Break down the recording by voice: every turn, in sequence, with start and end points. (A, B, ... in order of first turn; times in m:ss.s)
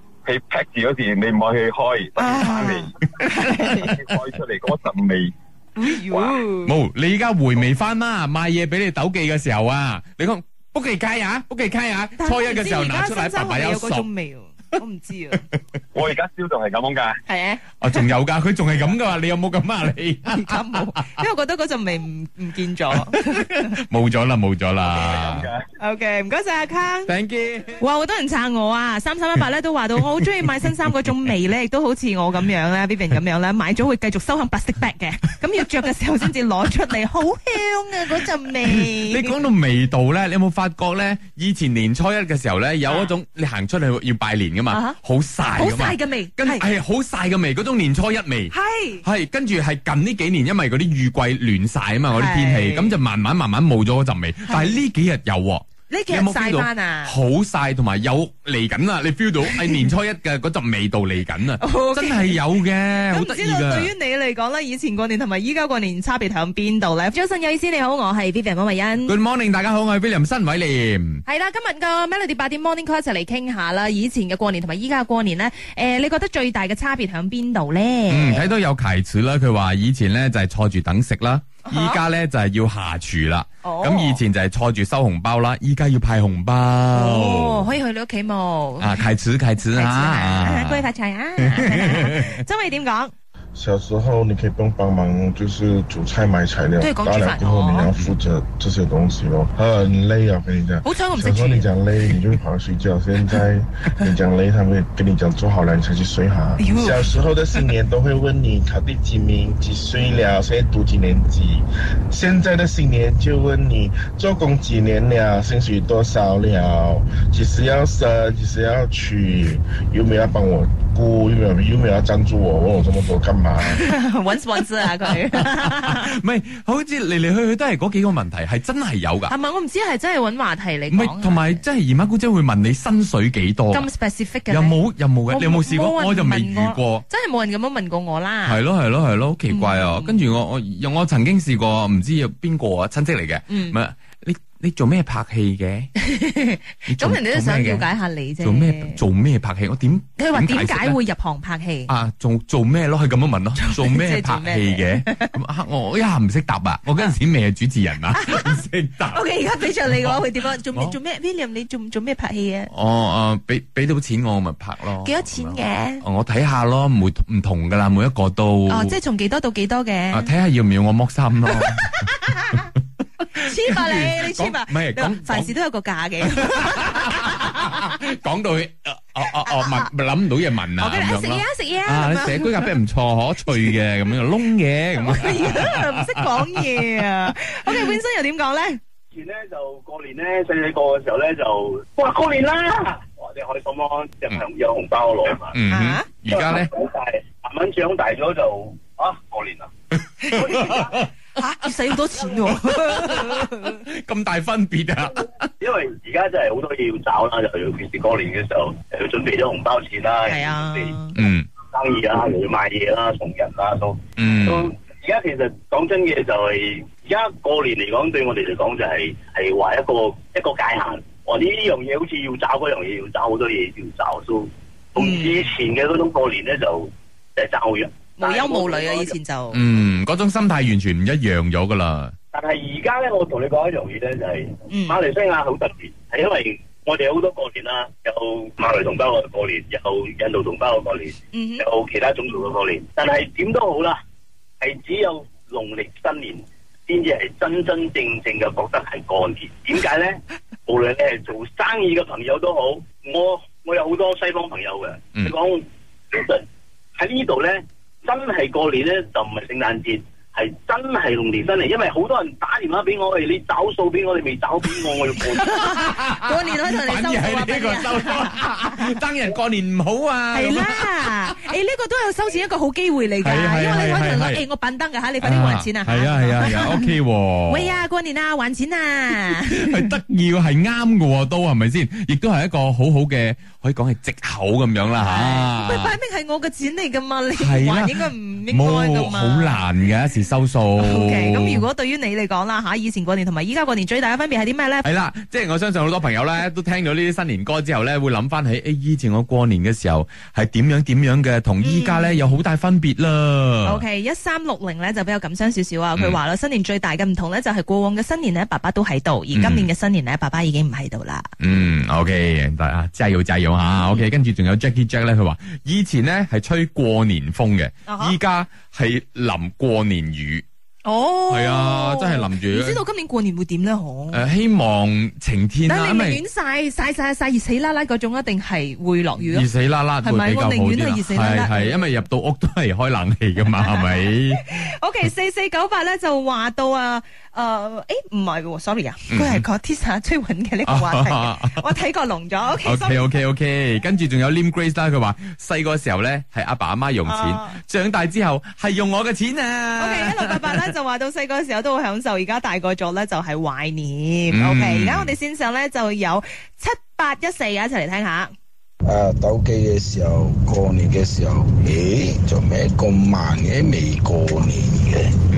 0:00.2-0:02.9 A
0:02.2-0:04.0 B
0:03.2-0:03.9 C
0:03.8-0:05.3 A
0:05.8-0:06.7 B
0:06.1-0:06.4 A
0:06.5-0:14.1 C
0:12.2-0:15.4 B
0:15.9-0:17.2 A
0:17.3-0:18.1 B
0:17.8-0:21.1 C
0:20.3-0:23.8 B
0:22.9-0:25.5 C
0:24.8-0:25.6 A
0:25.8-0:27.1 B
0:27.1-0:27.8 C
0:27.7-0:39.4 B
0:30.0-0:30.7 C
0:38.6-1:03.9 C
0:42.8-0:43.1 B
0:44.7-0:45.0 B
0:45.5-0:46.6 B
0:48.5-0:49.0 B
0:52.1-0:53.0 B
0:54.5-0:54.8 B
0:55.9-0:57.1 B
0:59.5-0:59.8 B
1:01.6-1:09.1 B
1:09.0-1:11.2 C
1:11.2-1:18.5 B
1:18.1-1:27.7 C
1:21.6-1:22.0 B
1:23.6-1:24.2 B
1:26.9-1:29.1 B
1:28.8-1:30.8 C
1:29.7-1:33.1 B
1:31.4-1:32.4 C
1:33.5-2:03.8 D
1:36.8-1:37.9 B
1:40.8-1:41.7 B
1:46.6-1:47.6 B
2:03.7-2:06.1 B
2:04.8-2:09.3 C
2:09.3-2:11.6 B
2:10.9-2:13.9 C
2:13.7-2:14.8 B
2:14.5-2:17.0 C
2:15.3-2:18.6 B
2:18.4-2:25.9 C
2:19.5-2:20.3 B
2:23.5-2:23.8 B
2:26.0-2:29.0 B
2:26.9-2:31.0 C
2:30.2-2:31.9 B
2:31.9-2:41.0 C
2:33.6-2:35.4 B
2:38.1-2:42.7 B
2:42.7-2:49.0 C
2:45.0-2:46.0 B
2:48.7-2:50.3 B
2:50.1-2:52.7 C
2:51.5-2:52.7 B
2:53.2-2:55.5 C
2:53.4-2:57.9 B
2:56.2-3:07.0 C
2:59.2-2:59.9 B
3:00.8-3:02.8 B
3:03.5-3:03.7 B
3:05.0-3:08.8 B
3:07.6-3:07.9 C
3:09.1-3:15.5 E
3:15.5-3:16.7 C
3:15.7-3:16.1 B
3:16.3-3:19.7 E
3:20.0-3:21.1 C
3:20.3-3:21.0 E
3:21.4-3:23.8 B
3:21.6-3:25.5 C
3:25.6-3:31.0 E
3:30.2-3:31.2 B
3:31.1-3:31.5 C
3:31.7-3:49.1 E
3:34.2-3:34.7 C
3:45.0-3:45.4 B
3:48.2-3:49.6 B
3:49.5-3:52.1 C
3:52.3-4:04.0 E
3:54.7-3:55.0 B
4:01.3-4:01.6 B
4:04.6-4:16.4 E
4:17.0-4:25.5 E
4:25.2-4:31.5 C
4:25.4-4:28.9 B
4:30.3-4:37.0 B
4:33.2-4:34.4 C
4:35.2-4:37.8 C
4:37.5-4:39.9 B
4:39.1-4:46.0 C
4:45.0-4:49.7 B
4:47.4-4:51.7 C
4:50.8-4:54.9 B
4:54.8-5:03.8 C
5:01.6-5:02.4 B
5:03.6-5:11.3 B
5:05.9-5:06.2 C
5:09.3-5:09.7 C
5:11.4-5:20.4 C
5:17.8-5:18.2 B
5:20.8-5:24.2 B
5:21.3-5:22.8 C
5:24.1-5:26.2 C
5:25.6-5:29.5 B
5:29.2-5:34.7 C
5:30.0-5:31.9 B
5:33.5-5:43.2 B
5:39.1-5:39.5 C
5:40.6-5:41.7 C
5:42.6-5:50.7 C
5:47.0-5:47.6 B
5:49.8-5:58.3 B
5:54.3-5:55.2 C
5:58.8-6:05.1 F